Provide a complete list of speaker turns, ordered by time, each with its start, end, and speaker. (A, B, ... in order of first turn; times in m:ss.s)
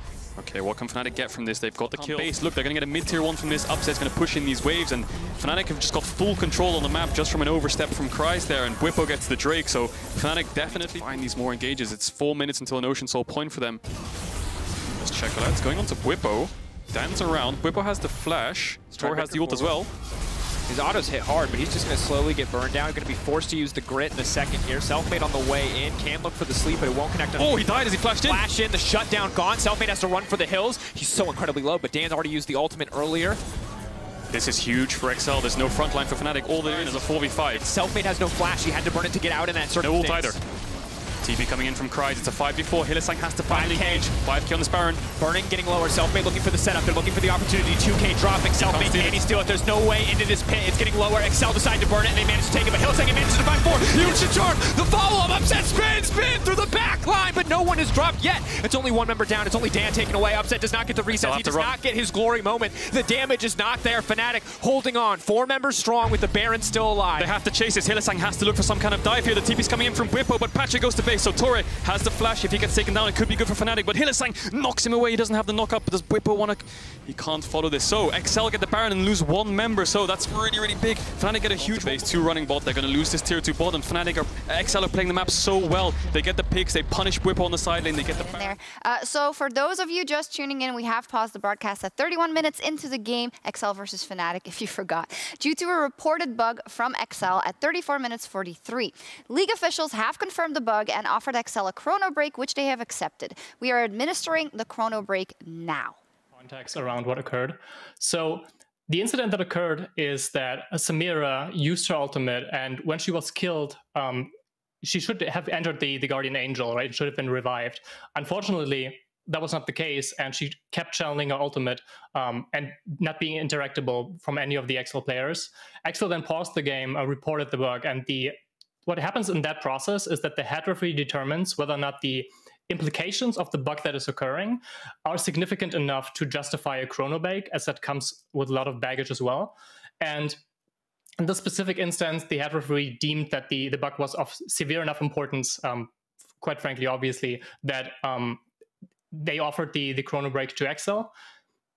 0:00.4-0:13.8 A
0:01.9-0:02.3 B
0:10.6-0:11.2 B
0:15.0-0:19.9 A
0:18.9-0:19.8 B
0:20.7-0:33.4 B
0:27.3-0:28.4 A
0:34.3-0:37.7 A
0:36.6-0:40.4 B
0:39.8-0:40.4 A
0:41.2-0:45.0 A
0:43.4-0:44.1 B
0:45.2-1:07.3 B
0:48.6-0:49.2 A
0:54.0-0:54.3 A
1:01.1-1:01.8 A
1:07.2-1:28.6 A
1:28.0-1:45.9 C
1:46.3-1:54.3 D
1:54.8-2:08.3 D
2:08.8-2:20.4 D
2:21.2-2:28.4 D
2:29.1-2:31.1 D